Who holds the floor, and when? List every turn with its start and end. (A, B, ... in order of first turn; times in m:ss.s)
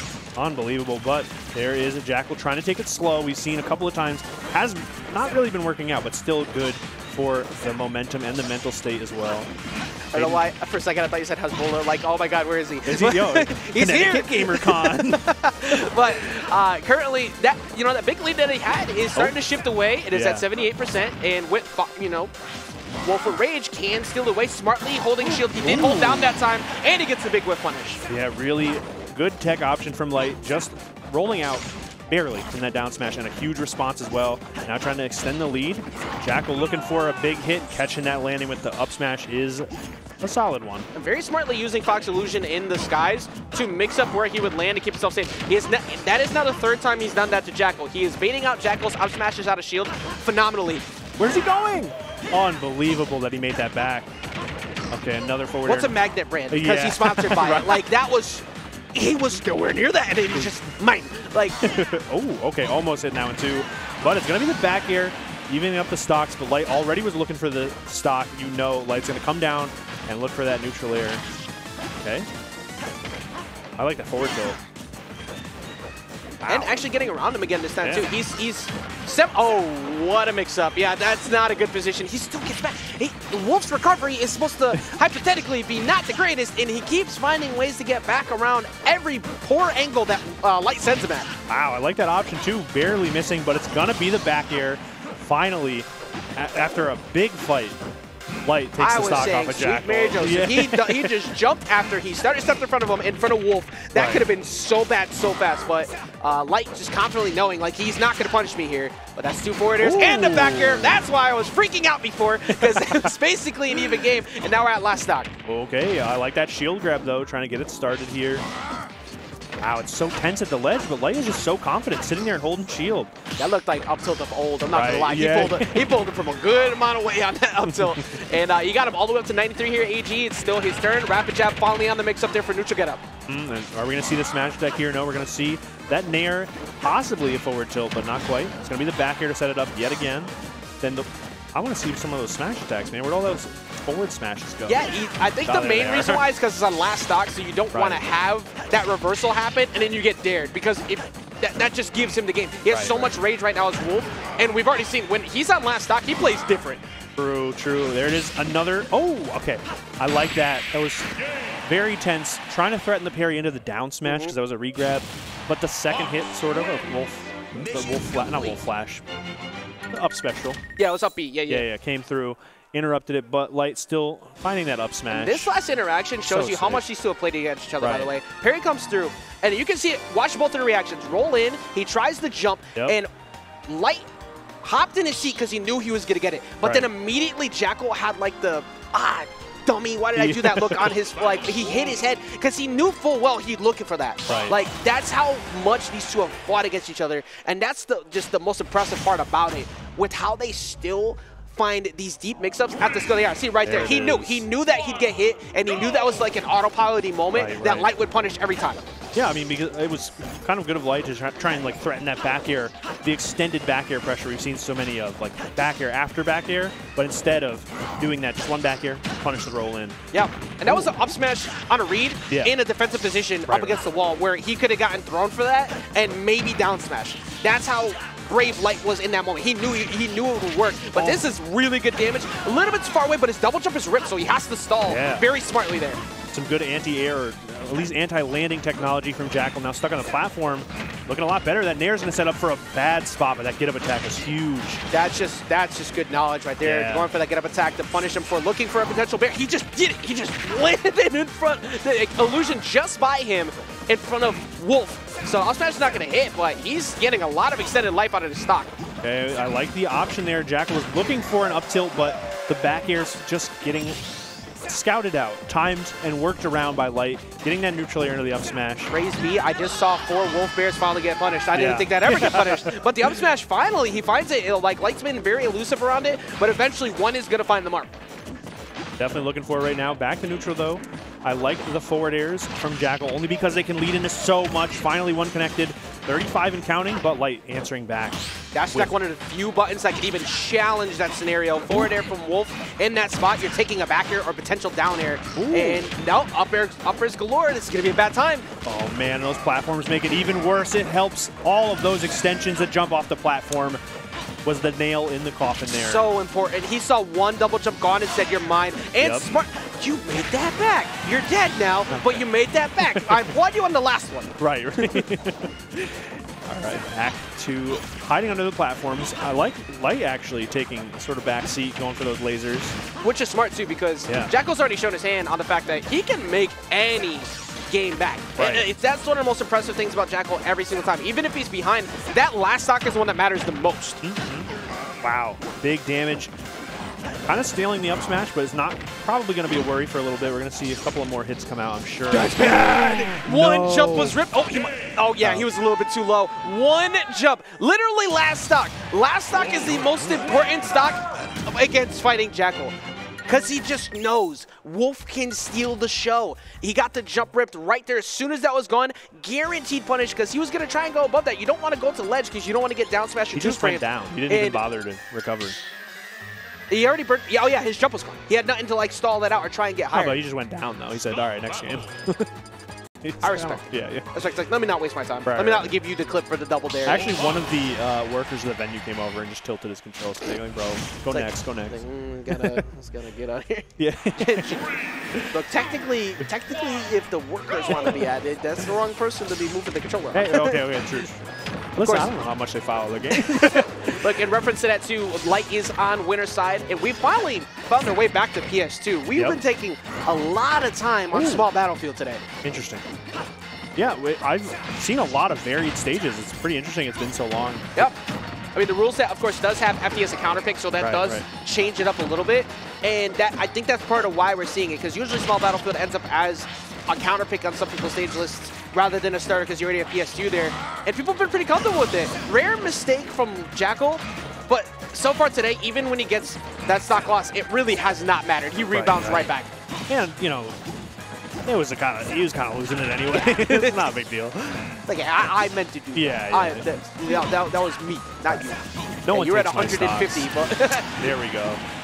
0:00.4-0:09.5 A
0:10.1-0:22.3 B
0:10.1-0:10.4 A
0:12.8-0:15.9 A
0:20.1-0:20.4 A
0:23.0-0:28.0 B
0:25.3-0:26.4 A
0:28.1-0:39.7 A
0:40.2-0:40.9 A
0:40.9-0:50.8 B
0:51.2-0:54.1 A
0:54.9-0:56.0 A
0:55.6-1:01.6 B
0:56.5-0:57.8 A
1:01.6-1:11.2 A
1:12.0-1:12.3 A
1:13.8-1:14.6 A
1:16.4-1:16.9 A
1:16.4-1:31.3 B
1:31.5-1:37.8 A
1:38.4-1:41.2 A
1:38.8-1:55.3 B
1:43.9-1:44.2 A
1:49.8-1:51.0 A
1:52.5-1:53.1 A
1:55.4-1:58.4 A
1:59.6-2:03.1 A
2:03.4-2:13.0 B
2:04.7-2:06.0 A
2:07.6-2:08.2 A
2:13.3-2:24.8 A
2:24.7-2:36.8 B
2:25.4-2:26.3 A
2:27.7-2:28.0 A
2:32.7-2:33.1 A
2:37.2-2:49.0 A
2:44.0-2:44.3 B
2:49.9-2:50.6 A
2:50.8-2:51.7 B
2:51.5-2:55.5 A
2:55.1-3:03.1 B
2:56.2-2:56.8 A
2:57.8-2:58.1 A
3:03.7-3:04.1 B
3:04.6-3:28.8 B
3:06.6-3:06.9 A
3:10.2-3:10.9 A
3:14.3-3:14.6 A
3:23.6-3:24.4 A
3:27.3-3:27.9 A
3:29.1-3:40.0 A
3:40.1-3:56.0 B
3:40.6-3:40.9 A
3:42.3-3:42.6 A
3:43.4-3:43.8 A
3:51.0-3:51.3 A
3:54.9-3:55.3 A
3:56.3-4:04.8 A
4:04.9-4:18.7 B
4:06.6-4:07.1 A
4:19.0-4:24.0 A
4:24.6-4:28.9 A
4:28.9-4:37.9 B
4:31.5-4:32.8 A
4:39.0-4:48.2 A
4:48.5-4:58.5 B
4:55.3-4:55.8 A
4:58.6-5:03.8 A
5:04.4-5:06.0 A
5:05.8-5:15.0 B
5:09.0-5:09.3 A
5:11.9-5:12.3 A
5:12.8-5:13.3 A
5:14.4-5:22.8 A
5:23.0-5:34.0 B
5:24.1-5:24.3 A
5:28.4-5:28.7 A
5:34.0-5:36.3 A
5:37.2-5:44.2 A
5:42.1-5:52.8 B
5:45.2-5:45.5 A
5:53.3-6:04.6 B
6:03.3-6:05.6 A
6:06.7-6:10.2 B
6:09.9-6:12.3 A
6:13.0-6:14.0 A
6:13.2-6:17.1 B
6:15.2-6:15.7 A
6:16.8-6:22.6 A
6:21.1-6:24.7 B
6:23.8-6:24.6 A
6:25.3-6:30.6 B
6:30.1-6:31.2 A
6:31.8-6:34.1 A
6:31.8-6:32.1 B
6:33.1-6:42.3 B
6:41.1-6:41.4 A
6:42.4-6:42.8 A
6:43.7-6:47.9 A
6:48.5-7:09.5 B
6:50.8-6:51.2 A
7:08.7-7:09.3 A
7:09.9-7:10.6 A
7:11.4-7:14.8 A
7:13.1-7:13.9 B
7:14.9-7:21.1 B
7:15.9-7:16.7 A
7:19.0-7:21.6 A